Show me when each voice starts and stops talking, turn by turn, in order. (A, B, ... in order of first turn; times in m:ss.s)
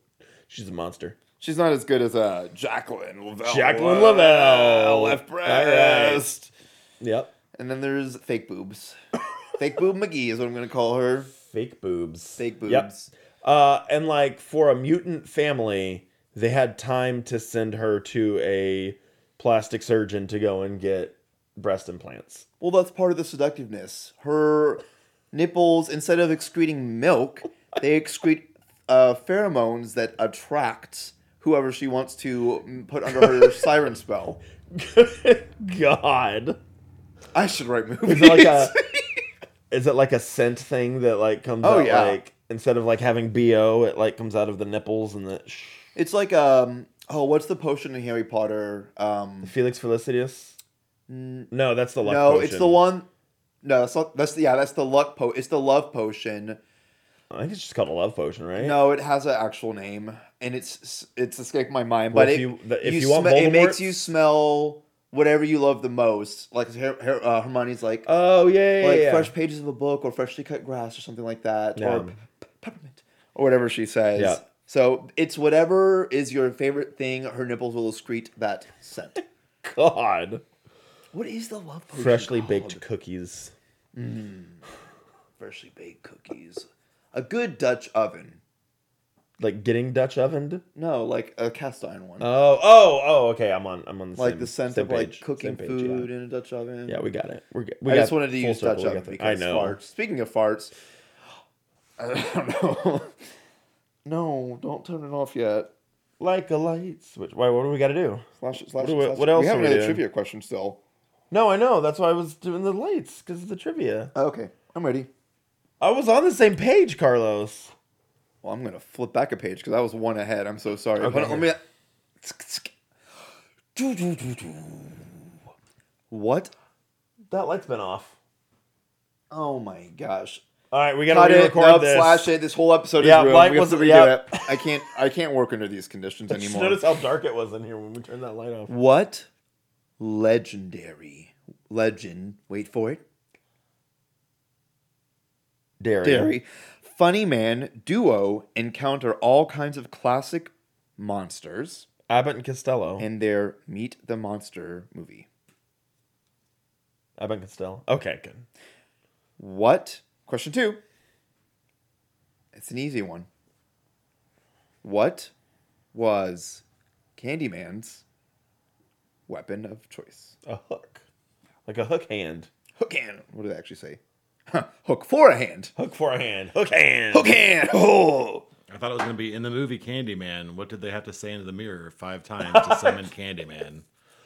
0:00.5-0:01.2 A
0:01.4-0:06.5 B
0:03.4-0:06.3 A
0:07.0-0:07.3 A
0:07.5-0:09.0 B
0:09.6-0:11.3 B
0:11.3-0:12.9 A
0:12.4-0:13.1 B
0:13.4-0:22.4 A
0:22.6-0:34.4 B
0:34.7-0:36.6 A
0:37.3-0:39.2 B
0:38.0-0:38.7 A
0:39.7-0:45.9 A
0:41.6-0:42.2 B
0:45.9-0:49.5 B
0:49.4-0:50.6 A
0:51.1-0:53.1 B
0:51.5-0:52.8 A
0:53.6-0:56.6 B
0:57.3-0:58.8 A
0:58.6-1:08.1 B
1:02.1-1:03.9 A
1:08.0-1:09.3 A
1:08.8-1:19.2 B
1:11.8-1:12.1 A
1:14.2-1:14.4 A
1:19.6-1:20.4 A
1:21.1-1:22.8 B
1:21.9-1:23.5 A
1:23.9-1:24.6 B
1:25.4-1:28.4 B
1:29.4-1:30.6 A
1:30.8-1:32.3 B
1:32.2-1:36.1 A
1:34.2-1:37.0 B
1:36.9-1:39.8 A
1:37.8-1:40.7 B
1:42.0-1:43.1 B
1:44.0-1:45.7 B
1:46.2-1:48.2 A
1:48.4-1:50.8 B
1:48.8-1:50.0 A
1:51.3-1:54.1 A
1:54.1-1:55.1 B
1:55.8-1:57.7 A
1:58.4-2:01.6 B
2:01.0-2:01.5 A
2:02.2-2:02.7 B
2:03.7-2:05.1 B
2:06.1-2:06.5 B
2:07.3-2:08.2 A
2:09.3-2:10.4 B
2:10.7-2:12.3 A
2:11.1-2:16.9 B
2:13.0-2:14.6 A
2:16.3-2:18.7 A
2:18.7-2:19.3 B
2:20.0-2:23.0 B
2:25.8-2:26.4 A
2:26.0-2:31.9 B
2:32.1-2:33.1 A
2:33.0-2:35.3 B
2:37.2-2:38.4 A
2:39.4-2:40.8 B
2:42.5-2:43.3 B
2:44.8-2:45.3 B
2:45.9-2:46.6 B
2:47.2-2:48.0 B
2:49.3-2:50.3 B
2:50.4-2:51.0 A
2:51.6-2:52.5 A
2:52.8-2:55.7 B
2:55.8-2:57.4 A
2:57.1-2:58.4 B
2:58.7-3:03.8 C
3:02.4-3:03.0 A